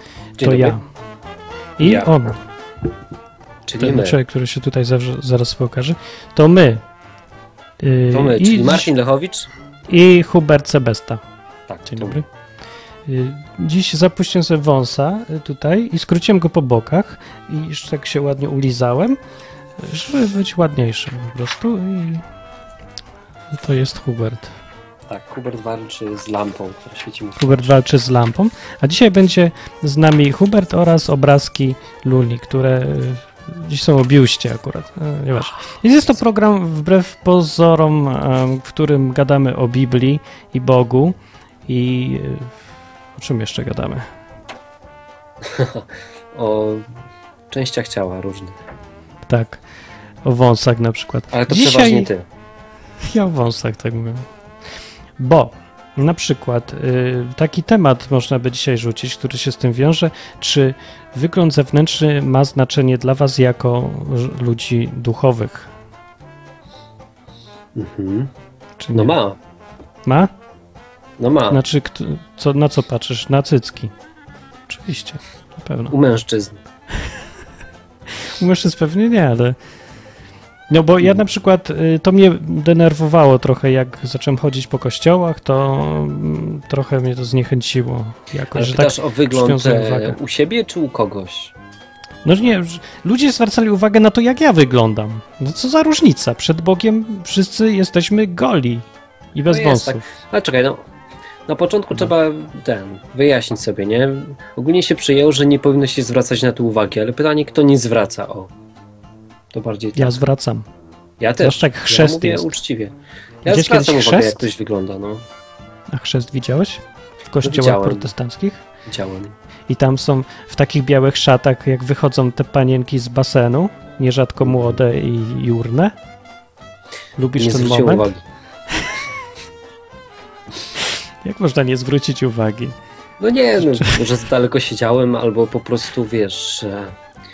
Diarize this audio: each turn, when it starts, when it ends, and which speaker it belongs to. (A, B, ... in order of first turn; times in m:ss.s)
0:00.4-0:00.8 A
0:00.4-0:00.8 B
0:01.8-0:02.4 B
0:01.8-0:02.2 A
0:03.7-0:04.2 A
0:03.8-0:06.8 B
0:07.8-0:08.9 B
0:08.1-0:09.5 A
0:09.9-0:11.2 B
0:11.7-0:12.2 A
0:11.9-0:12.3 B
0:13.1-0:19.2 B
0:19.8-0:22.2 B
0:23.5-0:24.5 B
0:25.1-0:27.5 A
0:27.4-0:41.2 B
0:41.7-0:42.5 B
0:43.2-0:44.1 B
0:45.4-0:46.9 A
0:47.5-0:48.6 A
0:49.3-0:49.6 B
0:50.2-0:52.1 B
0:51.3-0:52.2 A
0:53.0-0:54.2 B
0:55.2-1:05.7 B
1:07.8-1:08.3 A
1:08.8-1:09.2 B
1:08.9-1:09.4 A
1:10.1-1:10.3 B
1:11.2-1:11.6 A
1:11.5-1:13.9 B
1:14.7-1:16.0 B
1:15.9-1:16.6 A
1:18.4-1:19.6 B
1:20.7-1:30.2 B
1:28.5-1:31.5 A
1:32.2-1:40.0 B
1:39.5-1:40.8 A
1:41.5-1:48.5 A
1:49.5-1:50.2 A
1:50.0-1:50.7 B
1:51.2-1:52.9 A
1:51.4-1:52.6 B
1:53.4-1:55.2 A
1:53.5-1:54.5 B
1:55.9-1:58.6 B
1:57.4-1:58.1 A
1:58.9-1:59.4 A
1:59.7-2:05.9 B
2:04.4-2:04.8 A
2:07.2-2:08.1 B
2:07.4-2:08.2 A
2:11.2-2:12.8 B
2:13.2-2:17.0 A
2:13.6-2:14.0 B